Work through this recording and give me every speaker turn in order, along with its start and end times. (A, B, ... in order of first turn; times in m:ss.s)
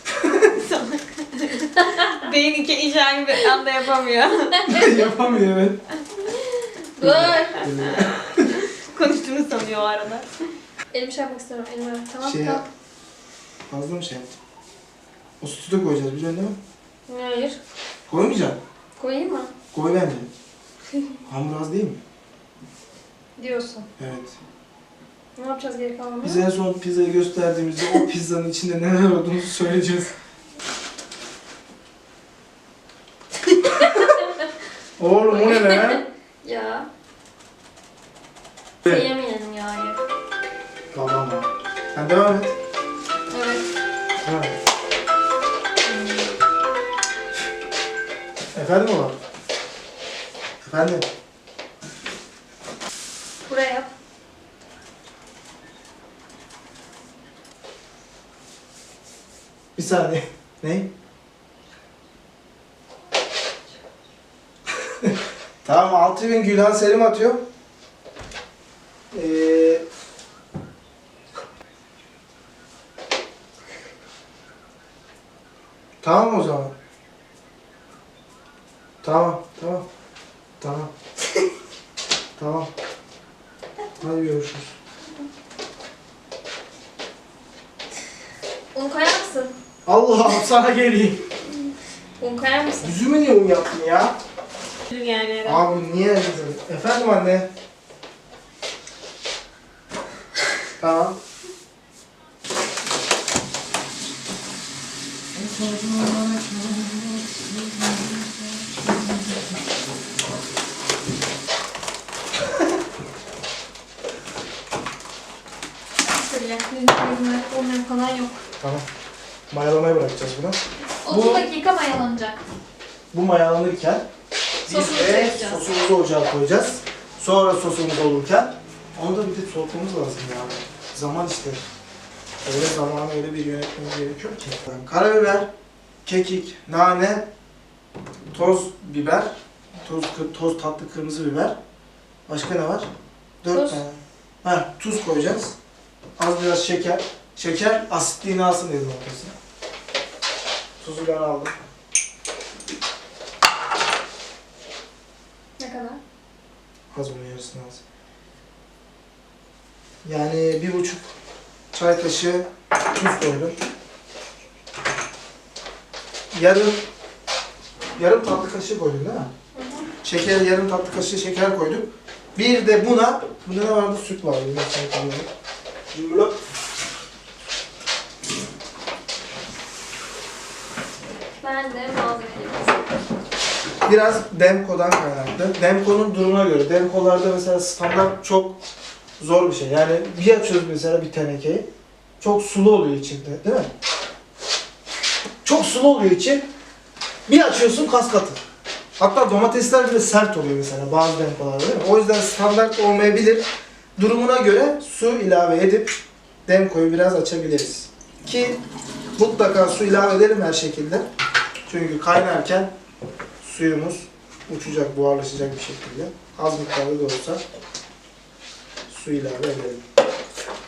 0:00.4-0:04.9 A
0:01.8-0:02.2 B
0:04.7-0:05.8 C
0:07.0-0:07.6 B
0:07.0-0:08.6 C
0:07.9-0:10.3 A
0:10.9-0:12.6 B
0:12.2-0:12.6 C
0:13.7-0:14.3 C
0:15.4-0:16.6 C
0:17.1-0:17.6 B
0:18.1-0:18.6 C
0:19.0-0:19.5 B
0:19.7-0:20.3 C
0:21.3-0:22.0 C
0:23.4-0:23.9 B
0:24.0-0:24.4 C
0:25.4-0:26.4 B
0:26.2-0:30.1 C
0:33.6-0:34.3 B
0:35.0-0:36.0 C
0:35.3-0:36.9 B
0:38.8-0:40.0 B
0:40.9-0:42.6 C
0:43.3-0:43.6 B
0:44.2-0:44.6 C
0:48.5-0:49.2 C
0:50.6-0:51.1 C
0:53.5-0:53.9 B
0:59.8-1:00.9 C
1:04.8-1:07.5 C
1:09.1-1:09.9 C
1:16.0-1:16.7 C
1:19.0-1:19.9 C
1:20.6-1:20.9 C
1:22.4-1:22.7 C
1:24.0-1:24.8 C
1:28.7-1:29.5 B
1:29.9-1:31.3 C
1:32.2-1:33.0 B
1:32.8-1:34.2 C
1:34.9-1:35.6 A
1:35.4-1:37.5 C
1:40.8-1:41.2 C
1:45.4-1:47.8 C
1:56.1-1:58.4 B
1:58.6-1:58.9 C
1:59.5-2:01.5 C
2:01.0-2:02.4 B
2:03.1-2:04.1 C
2:04.7-2:05.6 B
2:04.7-2:11.6 C
2:12.4-2:15.5 C
2:16.0-2:17.3 C
2:18.3-2:21.6 C
2:22.3-2:22.9 C
2:23.4-2:25.6 C
2:23.5-2:23.8 B
2:26.2-2:29.3 C
2:30.8-2:31.6 C
2:35.6-2:36.0 B
2:36.9-2:37.8 C
2:40.0-2:41.1 C
2:41.7-2:43.6 C
2:46.3-2:46.8 C
2:48.0-2:49.3 C
2:49.6-2:49.9 B
2:50.0-2:55.3 C
2:55.9-2:56.4 C
3:01.4-3:02.9 B
3:03.9-3:08.6 C
3:09.2-3:11.7 C
3:12.2-3:13.7 C
3:15.4-3:16.5 C
3:17.3-3:18.4 C
3:19.0-3:23.4 C
3:24.0-3:28.6 C
3:29.2-3:31.1 C
3:31.7-3:32.7 C
3:33.4-3:37.4 C
3:38.9-3:39.9 C